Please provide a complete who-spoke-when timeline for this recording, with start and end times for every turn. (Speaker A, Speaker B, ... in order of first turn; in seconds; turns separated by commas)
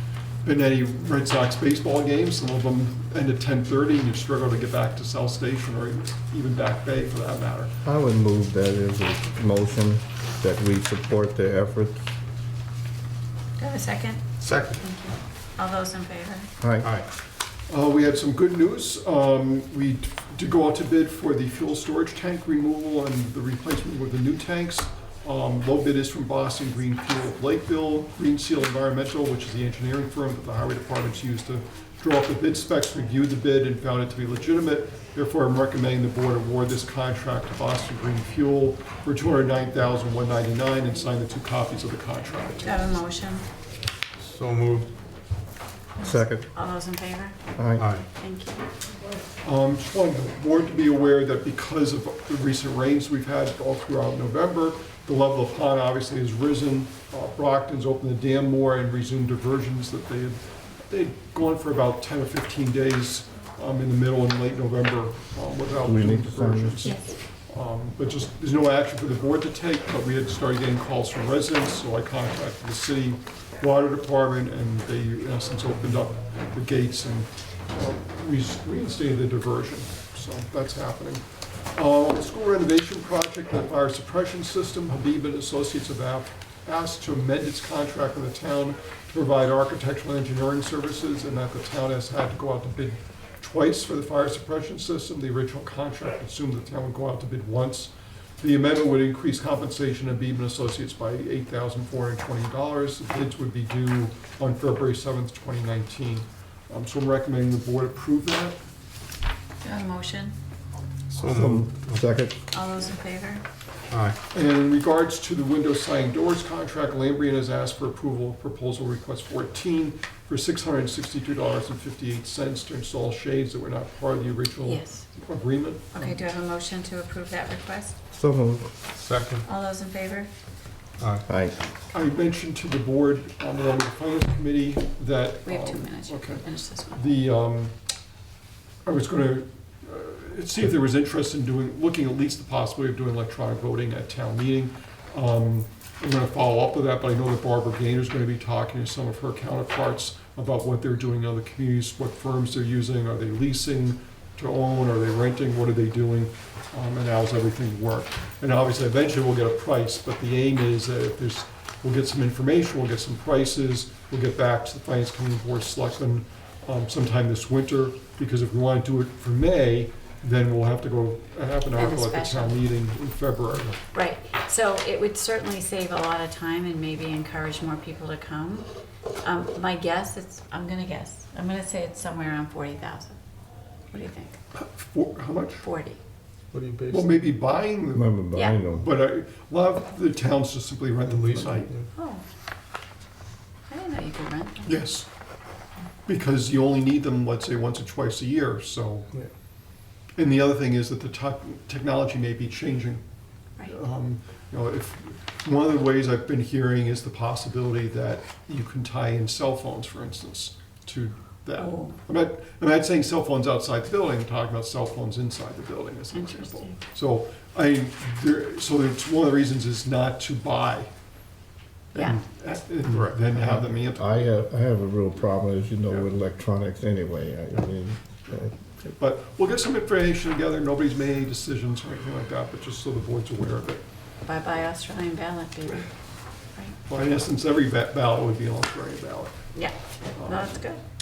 Speaker A: 0.4-7.7, Speaker B: 7.8-12.0, Speaker C: 13.6-14.2, Speaker D: 14.4-14.8, Speaker C: 14.8-16.5, Speaker B: 16.6-16.9, Speaker D: 16.8-17.1, Speaker A: 17.7-42.7, Speaker C: 42.6-43.5, Speaker D: 44.2-44.9, Speaker C: 46.0-47.4, Speaker B: 46.0-46.5, Speaker B: 47.5-47.9, Speaker D: 47.8-48.0, Speaker C: 48.2-48.7, Speaker A: 49.4-60.4, Speaker A: 60.9-108.6, Speaker B: 65.8-66.8, Speaker C: 66.8-67.2, Speaker C: 109.6-110.3, Speaker D: 111.1-112.0, Speaker B: 111.3-112.3, Speaker C: 112.5-113.4, Speaker D: 113.9-114.2, Speaker A: 114.3-126.2, Speaker C: 124.6-125.0, Speaker C: 125.9-128.0, Speaker B: 128.1-128.7, Speaker D: 128.9-129.4, Speaker C: 129.4-130.3, Speaker D: 131.0-131.2, Speaker B: 131.2-131.6, Speaker A: 131.9-137.7, Speaker C: 135.4-137.0, Speaker A: 138.8-173.8, Speaker C: 171.8-172.6, Speaker C: 173.9-178.7, Speaker C: 179.2-183.2, Speaker C: 183.9-184.3, Speaker A: 184.5-185.7, Speaker C: 185.6-186.0, Speaker D: 186.5-187.2, Speaker A: 186.9-191.7, Speaker B: 187.9-188.9, Speaker C: 188.3-188.6, Speaker D: 191.1-191.8, Speaker C: 191.9-192.2, Speaker C: 193.7-194.8, Speaker A: 194.7-195.1, Speaker A: 196.1-199.1, Speaker A: 200.2-203.0, Speaker A: 203.7-220.9, Speaker C: 211.5-212.0, Speaker C: 216.1-216.8, Speaker C: 221.9-222.2, Speaker A: 221.9-224.3, Speaker D: 222.9-223.2, Speaker B: 223.3-228.9, Speaker A: 228.9-233.8, Speaker C: 234.2-235.9, Speaker A: 236.9-239.4, Speaker C: 239.5-240.8, Speaker A: 240.1-240.5